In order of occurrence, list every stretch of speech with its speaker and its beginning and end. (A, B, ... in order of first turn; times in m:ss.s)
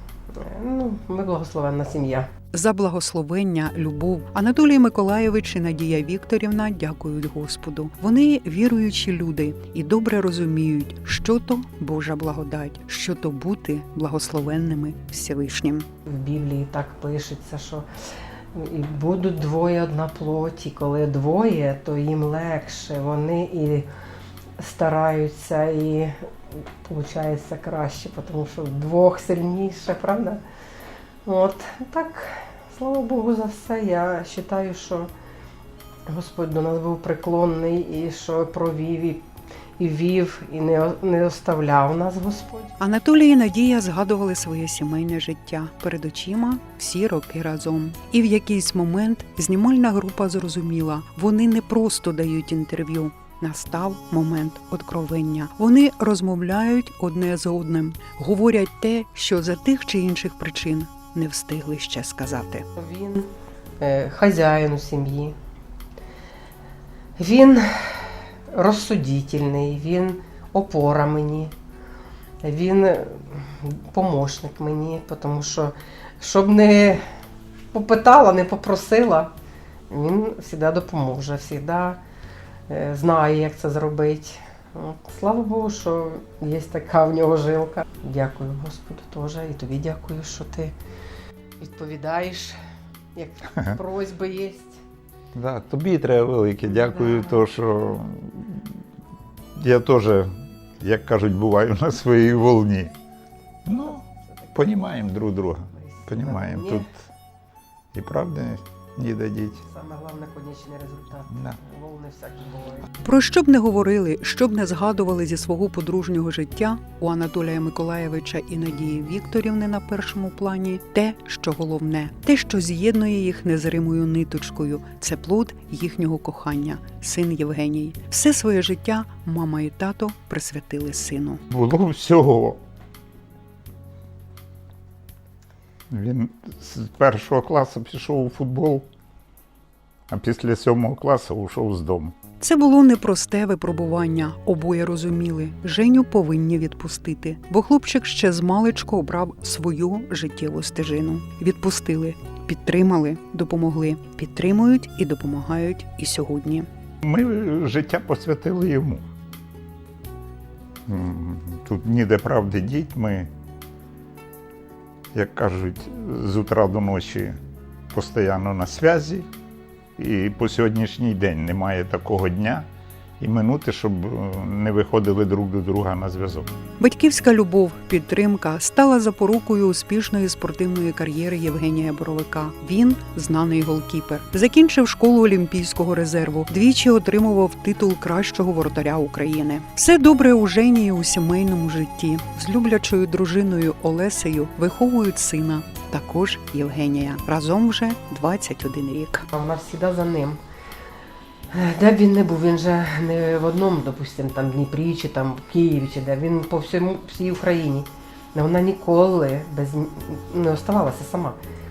0:00.4-0:02.3 A
0:02.5-0:15.8 B
0:16.0-0:17.8 A
0:18.5-0:23.9 A
0:24.6-0:26.2 A
0:26.8-0:30.4 A
0:31.2-0:35.1 A
0:36.1-0:39.2 A
0:39.8-0:42.7 A
0:42.8-1:02.6 B
1:02.8-1:05.3 A
1:07.2-1:11.5 A
1:12.4-1:17.0 A
1:17.7-1:19.3 A
1:19.9-1:22.0 A
1:22.7-1:30.7 A
1:31.6-1:32.5 A
1:33.1-1:34.8 A
1:35.3-1:38.7 C
1:39.6-1:42.9 C
1:43.6-1:47.0 C
1:45.7-1:46.9 A
1:47.9-1:49.6 C
1:49.6-1:52.8 A
1:53.0-2:11.4 B
2:11.5-2:12.6 C
2:15.9-2:18.9 C
2:20.1-2:22.1 C
2:22.4-2:36.7 B
2:37.0-2:39.0 C
2:40.9-2:43.3 C
2:45.1-2:47.4 C
2:47.9-2:49.3 C
2:50.0-2:52.7 C
2:53.2-2:56.5 C
2:56.8-3:19.2 B
3:19.3-3:20.4 A
3:21.5-3:31.4 A